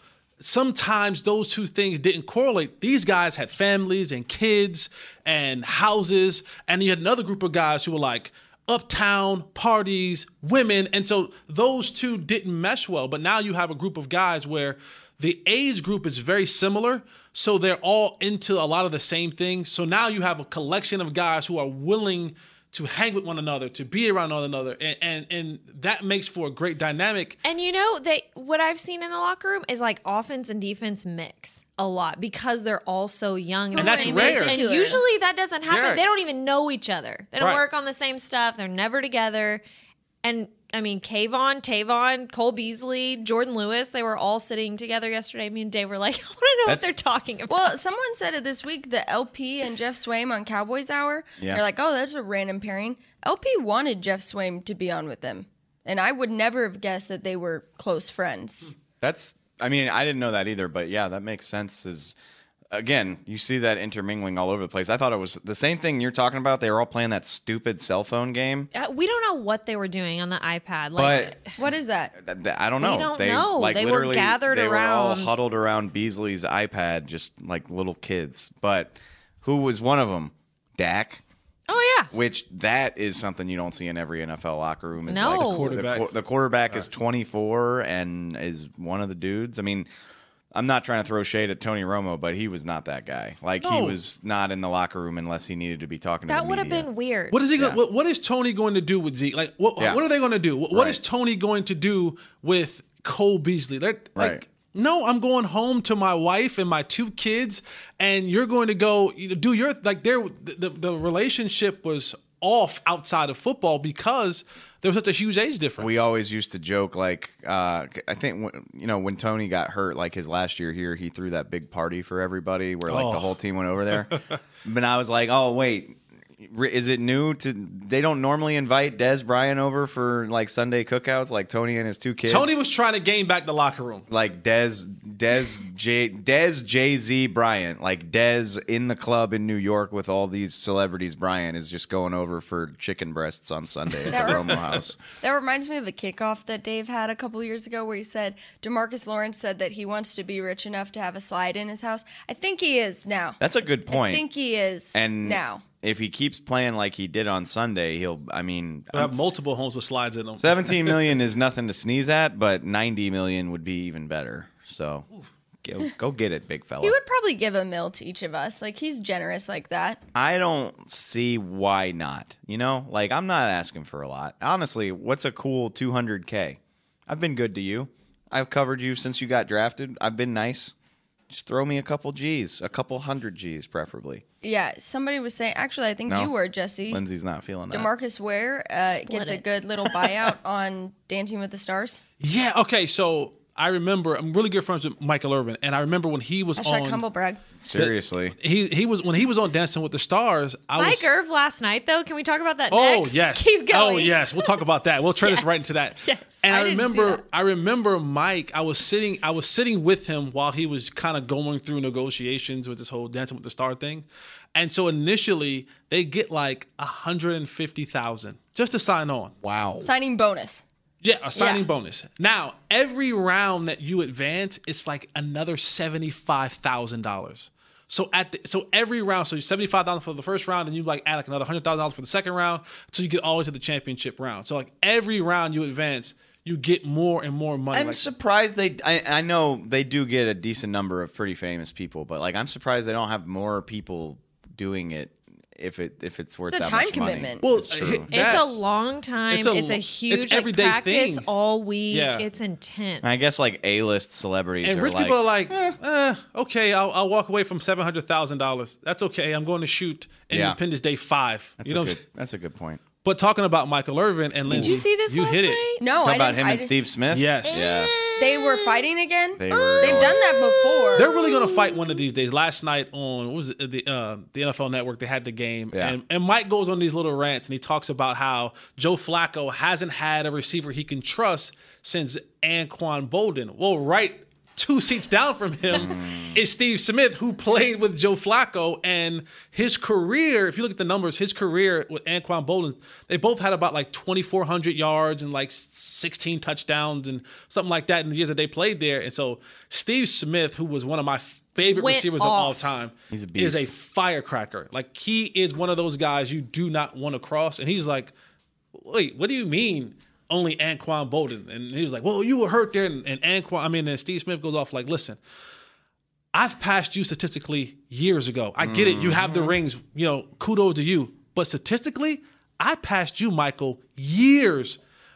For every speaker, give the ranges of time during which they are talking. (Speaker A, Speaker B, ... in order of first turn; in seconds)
Speaker A: 0.4-27.4, 33.8-34.6, 35.7-36.0, 85.2-86.1, 93.6-94.0, 97.3-116.0, 122.9-123.4, 123.9-124.4, 132.3-134.1, 158.9-161.1, 192.2-197.0, 197.8-201.1, 202.7-219.3, 221.0-238.0, 247.4-248.6, 249.3-251.3, 251.9-252.2, 254.6-262.0, 263.0-265.6, 267.1-267.7, 270.9-308.1, 308.7-315.2, 316.3-324.8
Speaker B: 27.4-39.6, 40.2-47.9, 68.7-71.5, 72.8-75.3, 81.7-82.1, 85.1-85.8, 96.3-97.4, 188.9-189.4, 200.8-204.6, 205.2-206.4, 248.1-253.3, 264.5-265.9, 267.4-268.9, 269.5-272.0, 301.6-302.8
Speaker C: 33.7-35.0, 47.5-58.8, 71.6-72.2, 144.1-153.4, 153.9-155.6, 166.8-170.0, 184.4-187.0, 187.7-192.0, 196.6-197.4, 206.5-207.2, 219.8-220.6, 221.3-221.7, 246.5-247.4, 265.8-266.7, 268.2-271.1
Speaker D: 59.0-62.2, 62.7-68.7, 71.0-71.4, 72.2-81.2, 82.1-89.9, 90.5-96.9, 100.7-101.0, 104.2-104.4, 115.8-132.6, 134.1-145.0, 153.4-154.2, 154.9-159.3, 160.4-165.1, 165.6-167.0, 170.1-180.8, 181.3-184.2, 186.1-186.3, 186.9-187.9, 197.7-198.4, 219.4-219.9, 237.7-248.4, 253.0-255.2, 260.3-260.6, 261.6-262.8, 264.5-264.8, 266.0-267.9, 269.4-270.2, 275.7-276.0, 285.7-286.4, 303.1-303.7, 318.6-319.6